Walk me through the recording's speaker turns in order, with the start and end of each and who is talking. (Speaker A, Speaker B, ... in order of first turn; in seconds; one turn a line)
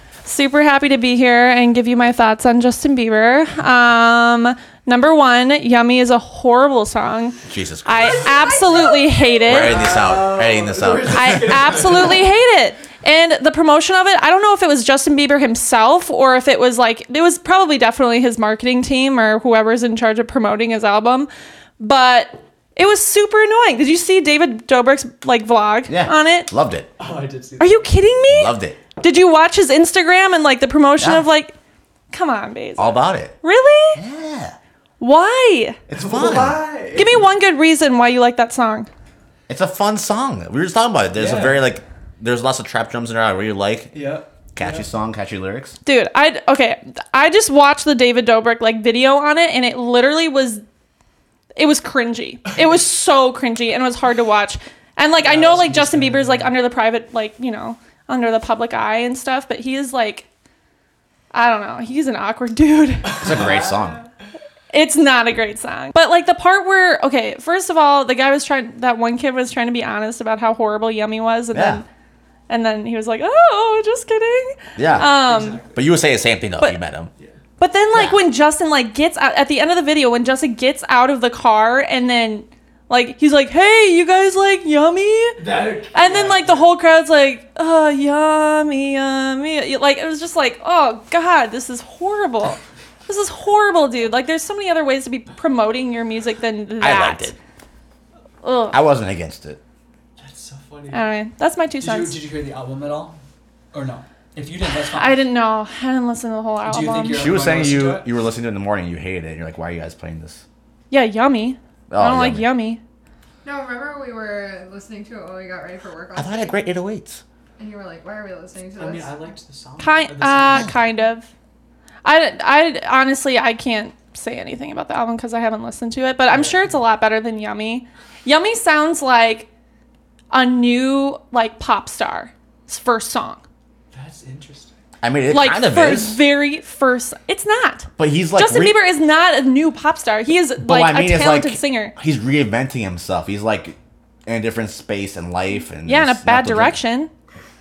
Speaker A: 0.2-10.0
Speaker B: 7.5-8.5
Speaker C: 8.6-9.3
Speaker B: 9.5-11.8
Speaker D: 9.5-12.3
Speaker A: 11.1-26.5
Speaker B: 25.9-26.9
Speaker D: 27.0-28.1
Speaker A: 27.6-31.6
Speaker B: 28.3-28.8
Speaker B: 31.0-31.2
Speaker A: 32.1-34.0
Speaker B: 32.8-33.4
Speaker B: 34.0-34.6
Speaker A: 35.0-35.8
Speaker B: 35.9-36.6
Speaker D: 35.9-37.3
Speaker A: 37.0-38.9
Speaker B: 39.5-44.0
Speaker D: 41.1-41.6
Speaker D: 43.9-44.9
Speaker B: 44.5-45.8
Speaker A: 45.9-50.6
Speaker A: 51.6-60.3
Speaker D: 55.2-56.5
Speaker A: 61.3-63.6
Speaker D: 63.1-64.0
Speaker B: 63.2-64.0
Speaker A: 64.7-71.8
Speaker B: 71.5-71.8
Speaker A: 72.5-75.6
Speaker B: 74.8-75.1
Speaker D: 74.8-75.9
Speaker B: 75.7-77.1
Speaker A: 77.6-97.3
Speaker D: 77.9-78.2
Speaker D: 85.4-86.7
Speaker B: 96.8-97.4
Speaker A: 98.4-98.8
Speaker B: 98.7-99.6
Speaker D: 100.2-101.1
Speaker A: 100.9-102.2
Speaker D: 101.8-103.2
Speaker D: 103.7-105.2
Speaker A: 104.7-107.4
Speaker D: 106.6-108.1
Speaker B: 107.2-110.4
Speaker A: 110.9-112.8
Speaker B: 111.9-112.5
Speaker C: 113.4-116.6
Speaker B: 116.2-117.2
Speaker C: 117.6-119.2
Speaker D: 118.8-120.8
Speaker A: 119.8-121.3
Speaker A: 122.0-129.5
Speaker D: 126.3-126.8
Speaker A: 130.3-133.4
Speaker D: 133.9-134.8
Speaker B: 135.0-136.2
Speaker A: 135.3-141.9
Speaker B: 138.0-138.8
Speaker B: 140.6-146.8
Speaker A: 145.8-147.1